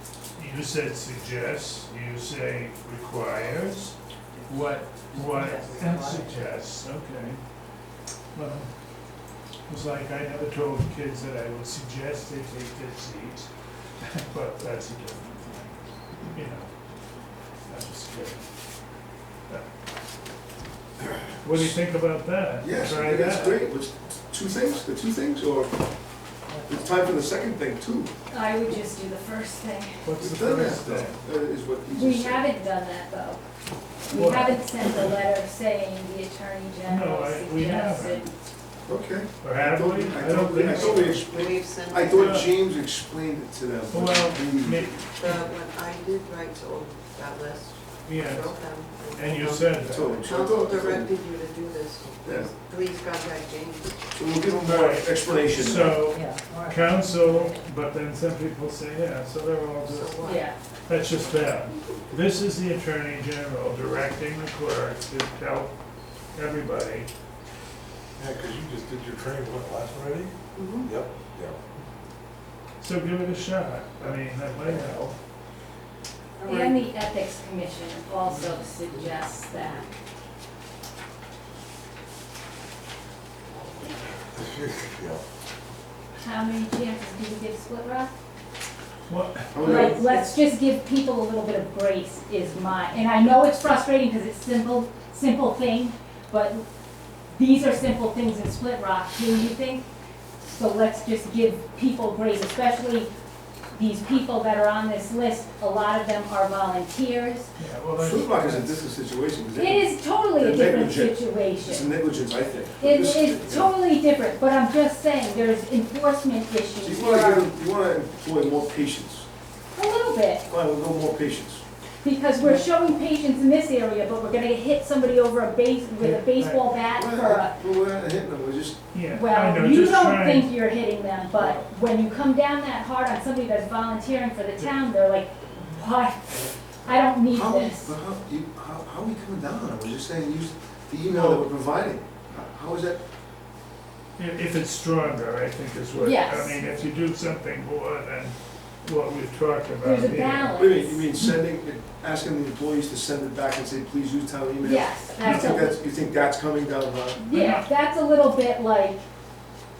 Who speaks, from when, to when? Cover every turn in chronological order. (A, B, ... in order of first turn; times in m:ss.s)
0:00.3-0:07.4 A
0:05.1-0:06.4 B
0:08.3-0:08.7 A
0:09.7-0:16.8 A
0:17.6-0:18.5 A
0:21.4-0:23.6 A
0:21.5-0:21.8 C
0:22.6-0:25.8 C
0:26.6-0:28.1 C
0:28.3-0:30.1 D
0:30.0-0:31.2 A
0:30.2-0:32.4 C
0:31.9-0:33.4 D
0:34.0-0:38.3 D
0:34.1-0:35.1 A
0:36.8-0:38.3 A
0:38.8-0:45.0 C
0:39.4-0:41.2 A
0:40.6-0:42.5 B
0:42.1-0:42.5 A
0:43.9-0:45.5 A
0:45.1-0:54.1 B
0:48.0-0:50.3 A
0:49.8-0:51.1 C
0:52.2-0:52.5 C
0:54.1-0:56.0 C
0:54.5-1:05.8 A
0:55.2-0:56.7 B
0:56.1-0:56.8 D
0:59.8-1:00.4 B
1:00.2-1:00.6 D
1:06.3-1:07.1 A
1:08.2-1:11.6 E
1:10.5-1:10.9 B
1:12.8-1:15.1 A
1:16.4-1:16.9 B
1:16.5-1:19.9 D
1:24.3-1:25.2 E
1:26.2-1:28.1 D
1:29.1-1:30.0 A
1:29.5-1:30.3 C
1:29.6-1:36.6 D
1:37.3-1:43.1 D
1:43.7-1:47.5 D
1:47.6-1:48.8 A
1:48.0-1:53.7 C
1:49.5-1:51.9 D
1:52.8-1:57.5 D
1:56.8-1:59.3 C
1:59.7-2:00.5 D
2:00.5-2:01.6 C
2:02.0-2:07.6 D
2:06.0-2:06.7 A
2:07.0-2:09.0 C
2:08.9-2:10.5 A
2:09.0-2:18.0 D
2:17.3-2:23.0 C
2:21.1-2:21.5 A
2:24.2-2:30.6 A
2:25.9-2:26.8 D
2:29.8-2:31.1 D
2:30.6-2:37.2 C
2:34.6-2:35.8 D
2:35.2-2:35.5 A
2:37.1-2:39.0 D
2:37.3-2:37.7 A